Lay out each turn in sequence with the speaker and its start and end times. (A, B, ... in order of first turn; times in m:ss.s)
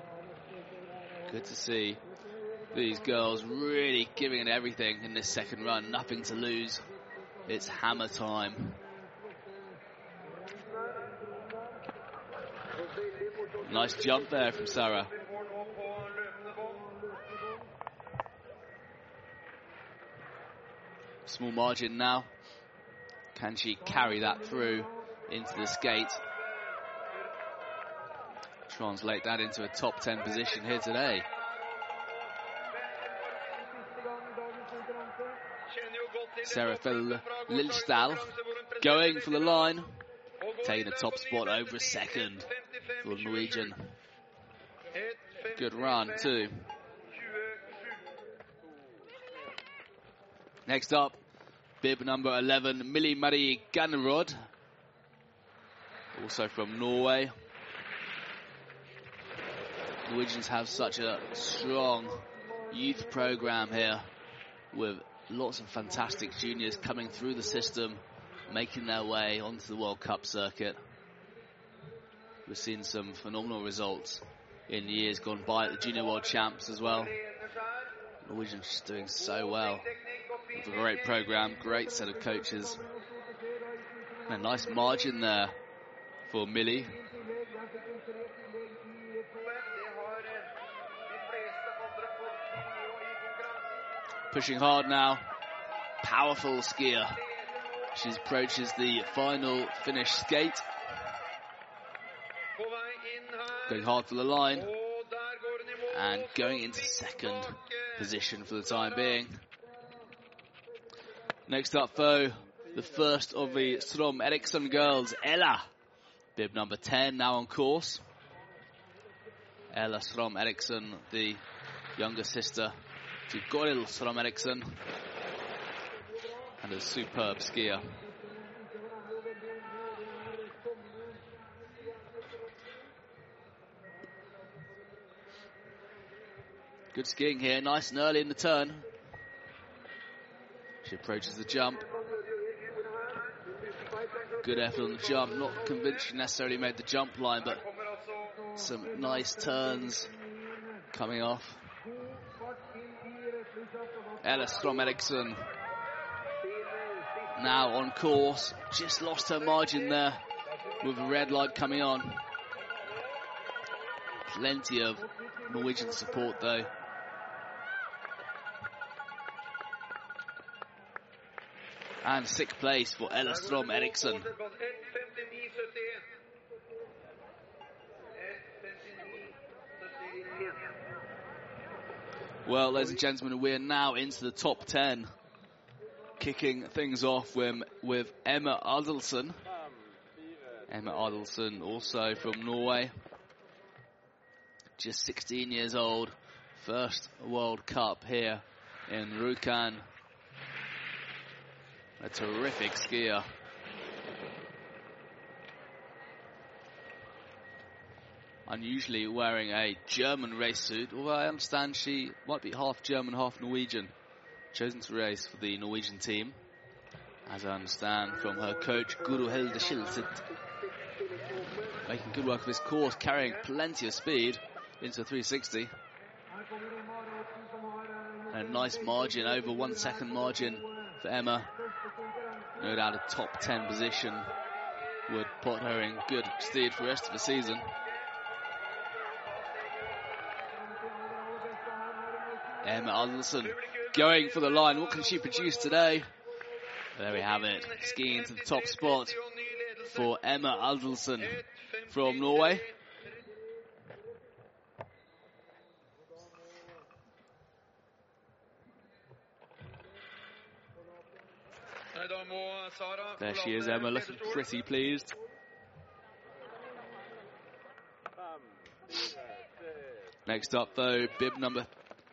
0:01.3-0:02.0 A
0:02.7-0:06.8 A
0:07.4-0:08.8 A
0:13.6-0:15.1 A
0:21.2-0:22.3 A
0:23.3-0:26.2 A
0:28.7-0:31.3 A
0:36.4-0:40.0 A
0:40.6-0:42.5 A
0:43.0-0:43.9 A
0:45.5-0:46.7 A
0:50.6-0:51.2 A
0:51.8-0:54.4 A
0:56.1-0:57.3 A
1:00.0-1:04.1 A
1:04.7-1:10.8 A
1:12.4-1:17.2 A
1:18.2-1:19.9 A
1:20.5-1:22.8 A
1:24.3-1:25.6 A
1:26.3-1:27.0 A
1:34.3-1:35.2 A
1:36.0-1:37.2 A
1:37.9-1:40.6 A
1:43.6-1:44.7 A
1:45.9-1:49.4 A
1:51.5-1:55.7 A
1:56.4-1:58.0 A
1:59.7-2:01.4 A
2:02.0-2:02.8 A
2:03.3-2:04.8 A
2:06.6-2:08.0 A
2:16.9-2:18.9 A
2:20.8-2:21.8 A
2:24.4-2:27.6 A
2:28.5-2:30.1 A
2:30.9-2:31.7 A
2:34.2-2:35.5 A
2:37.3-2:40.2 A
2:40.8-2:42.2 A
2:44.2-2:46.7 A
2:52.0-2:54.3 A
3:02.4-3:05.1 A
3:06.2-3:09.4 A
3:10.7-3:12.9 A
3:14.8-3:19.8 A
3:22.0-3:23.3 A
3:28.4-3:33.9 A
3:34.5-3:36.4 A
3:37.3-3:40.2 A
3:41.8-3:45.7 A
3:48.3-3:51.5 A
3:52.6-3:54.3 A
3:55.1-3:57.7 A
4:02.6-4:06.1 A
4:06.9-4:09.2 A
4:09.8-4:12.7 A
4:23.2-4:25.2 A
4:30.2-4:31.7 A